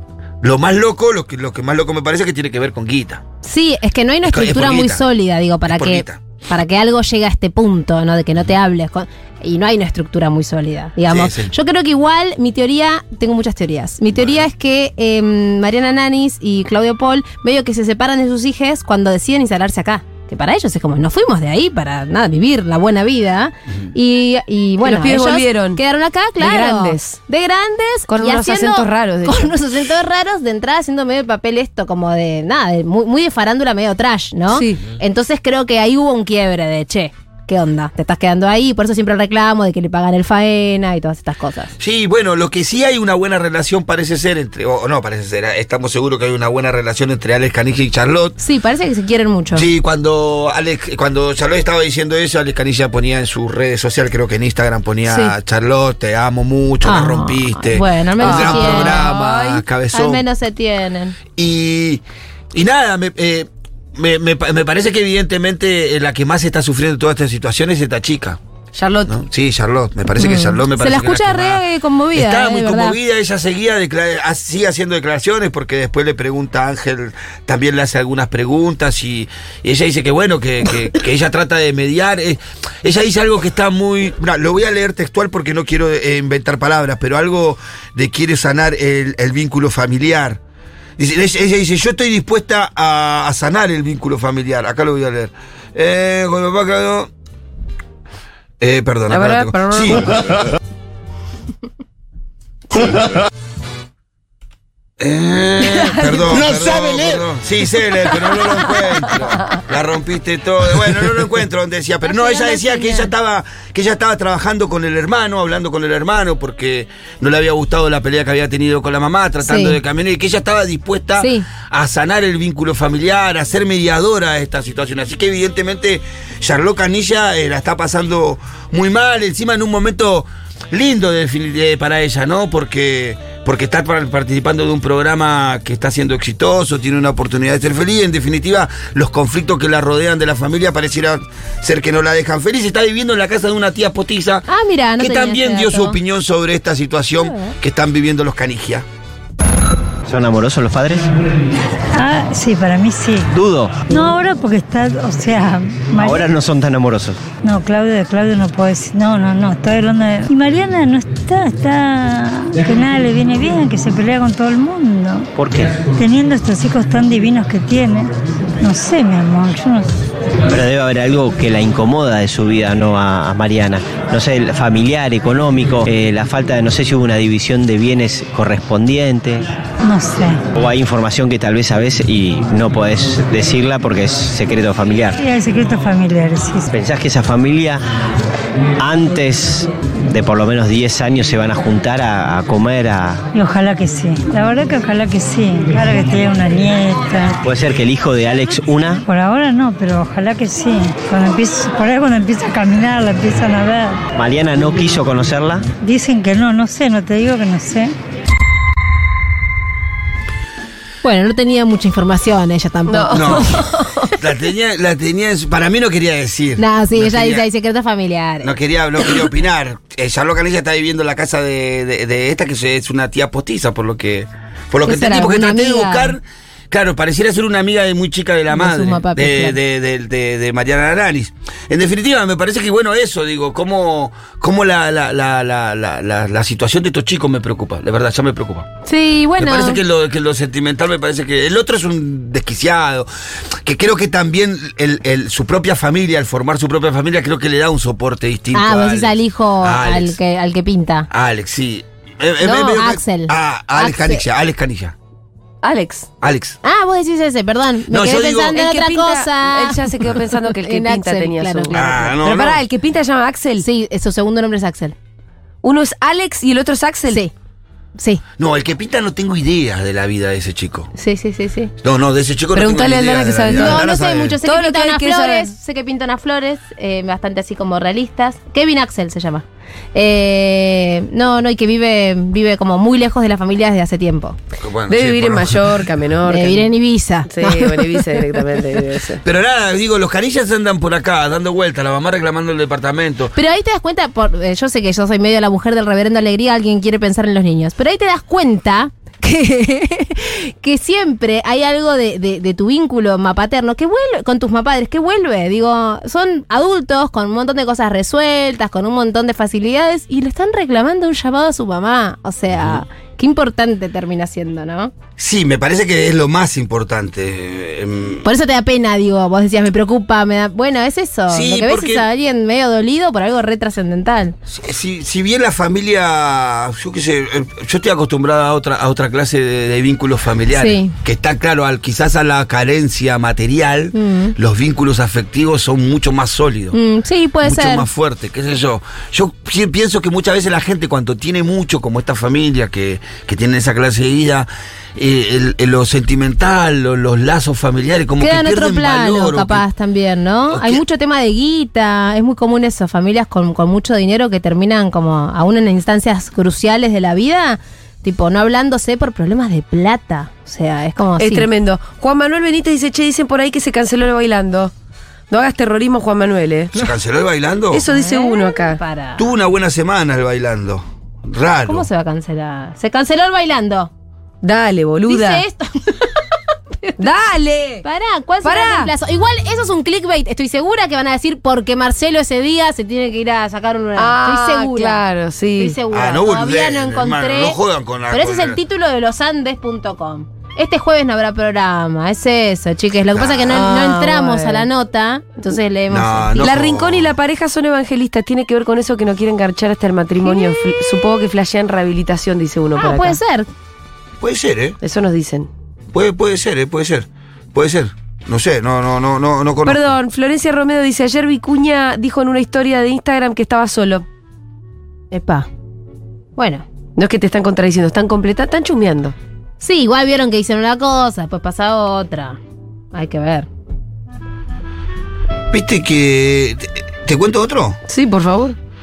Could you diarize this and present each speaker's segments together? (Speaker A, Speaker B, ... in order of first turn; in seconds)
Speaker A: 0.4-3.2, 4.2-5.0, 5.7-6.2, 11.1-11.5, 14.1-14.5, 41.8-48.4, 49.5-60.2, 61.4-62.0, 62.5-68.4, 69.1-90.4, 91.0-97.1, 98.6-100.2, 105.0-144.5, 145.0-148.8, 213.1-213.6, 214.2-217.4, 218.4-238.7, 239.4-243.1, 243.7-250.2, 251.1-254.9, 256.2-256.6, 257.9-258.6, 261.7-262.6, 268.4-270.9, 271.8-274.4, 284.6-285.8, 289.2-293.3, 312.5-312.8, 315.2-318.3, 321.3-322.0, 324.5-336.8, 337.4-349.6, 350.5-350.8, 366.7-367.9, 369.2-371.9, 385.9-388.6, 393.1-393.8, 395.9-397.1, 404.2-404.8, 405.9-410.0, 425.5-427.8
Speaker B: 3.4-41.7, 48.4-49.7, 56.9-59.1, 59.9-61.2, 70.2-73.0, 112.1-113.1, 119.4-119.8, 121.2-121.5, 144.5-146.0, 147.2-147.5, 211.0-213.7, 216.6-218.5, 224.8-226.2, 228.5-229.6, 238.9-239.8, 248.5-251.1, 252.4-254.2, 256.6-262.4, 263.6-264.9, 271.0-271.7, 273.5-284.4, 286.3-288.4, 293.4-314.9, 318.2-324.4, 330.5-330.9, 333.9-334.3, 336.7-337.9, 348.2-361.5, 367.9-369.3, 371.7-373.9, 375.1-376.1, 377.8-385.0, 385.6-387.6, 388.1-396.4, 402.8-403.5, 415.1-415.5, 416.4-416.6, 419.6-422.4, 422.9-423.5
Speaker C: 24.8-25.8, 26.4-27.2, 28.1-29.5, 34.5-34.8, 58.2-59.6, 68.8-69.1, 99.1-100.1, 212.9-213.8, 255.6-256.1, 258.5-263.6, 265.6-267.2, 272.6-273.8, 274.4-275.5, 284.9-286.7, 287.3-289.2, 361.2-364.7, 365.3-366.8, 367.7-368.8, 374.4-375.4, 377.0-377.9, 378.4-378.9, 384.0-385.8, 393.5-394.7, 396.4-403.2, 404.8-405.5, 409.6-414.1, 417.0-419.1, 427.9-428.6
Speaker D: 150.1-151.1, 153.3-153.8, 155.9-157.3, 165.3-165.9, 170.5-179.5, 180.6-185.2, 186.7-187.8, 188.8-193.3, 197.4-199.0, 204.1-205.7
Speaker E: 151.9-153.3, 153.9-156.3, 157.4-165.3, 165.9-169.9, 179.8-180.4, 185.2-186.7, 193.3-197.4, 199.1-204.0, 205.8-207.9